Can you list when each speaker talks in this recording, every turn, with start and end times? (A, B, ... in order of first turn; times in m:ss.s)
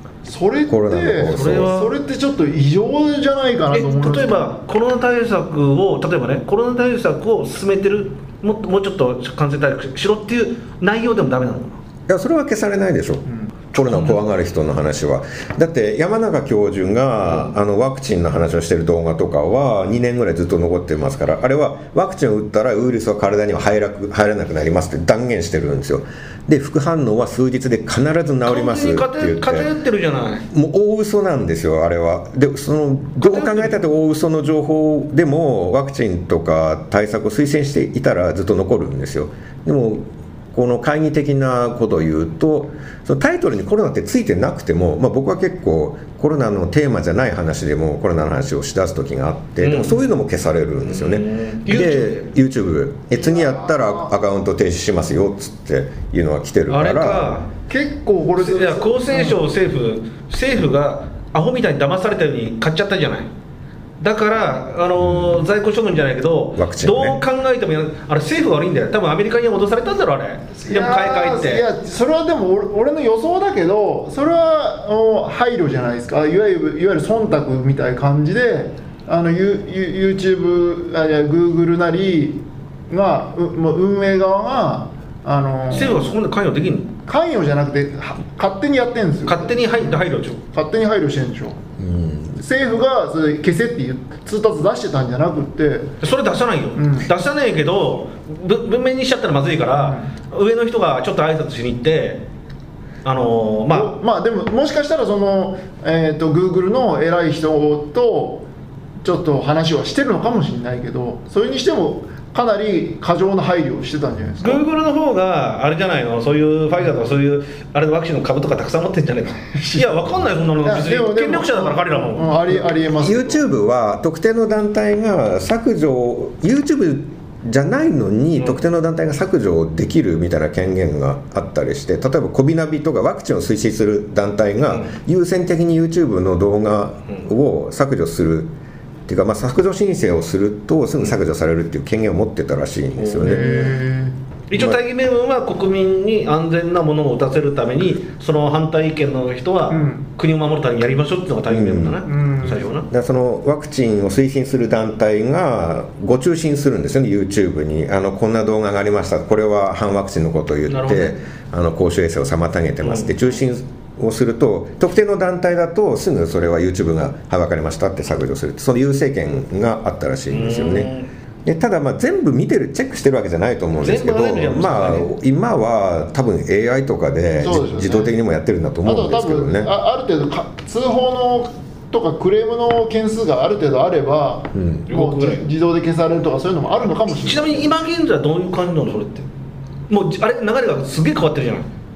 0:00.2-0:04.6 A
0:00.7-0:01.7 B
0:01.2-0:01.9 C
0:03.7-0:11.8 C
0:12.1-0:29.7 B
0:13.3-0:13.5 A
0:13.8-0:14.2 C
0:17.2-0:17.5 C
0:28.5-0:30.5 C
0:30.5-0:57.4 B
0:33.2-0:33.8 C
0:49.6-0:50.0 C
0:50.9-0:52.2 C
0:53.1-0:54.2 A
0:56.7-0:57.5 C
0:57.7-0:59.4 A
0:58.4-1:03.3 C
1:04.0-1:11.6 C
1:05.0-1:05.4 B
1:06.6-1:07.2 B
1:10.6-1:26.1 A
1:25.7-1:26.9 C
1:27.1-1:31.6 A
1:29.3-1:30.4 C
1:31.8-1:32.4 B
1:32.4-1:35.9 A
1:36.0-1:42.2 C
1:36.8-1:37.1 A
1:39.7-1:40.1 A
1:43.0-1:44.0 C
1:43.7-1:48.5 A
1:49.0-1:54.6 A
1:54.4-2:02.5 C
1:59.5-1:59.9 A
2:00.6-2:03.4 A
2:03.0-2:18.5 B
2:19.1-2:23.5 B
2:23.0-2:23.7 C
2:23.2-2:24.2 A
2:24.5-2:32.9 C
2:24.5-2:24.8 B
2:29.7-2:30.1 A
2:31.5-2:32.0 B
2:32.0-2:32.7 A
2:32.9-2:50.9 B
2:40.7-2:41.2 C
2:42.8-2:43.2 C
2:50.3-2:51.1 C
2:51.4-2:59.7 B
2:53.8-2:55.1 C
2:57.4-2:58.1 A
2:58.8-3:07.7 A
3:04.5-3:04.9 B
3:04.9-3:05.4 C
3:07.0-3:09.3 C
3:09.9-3:11.7 C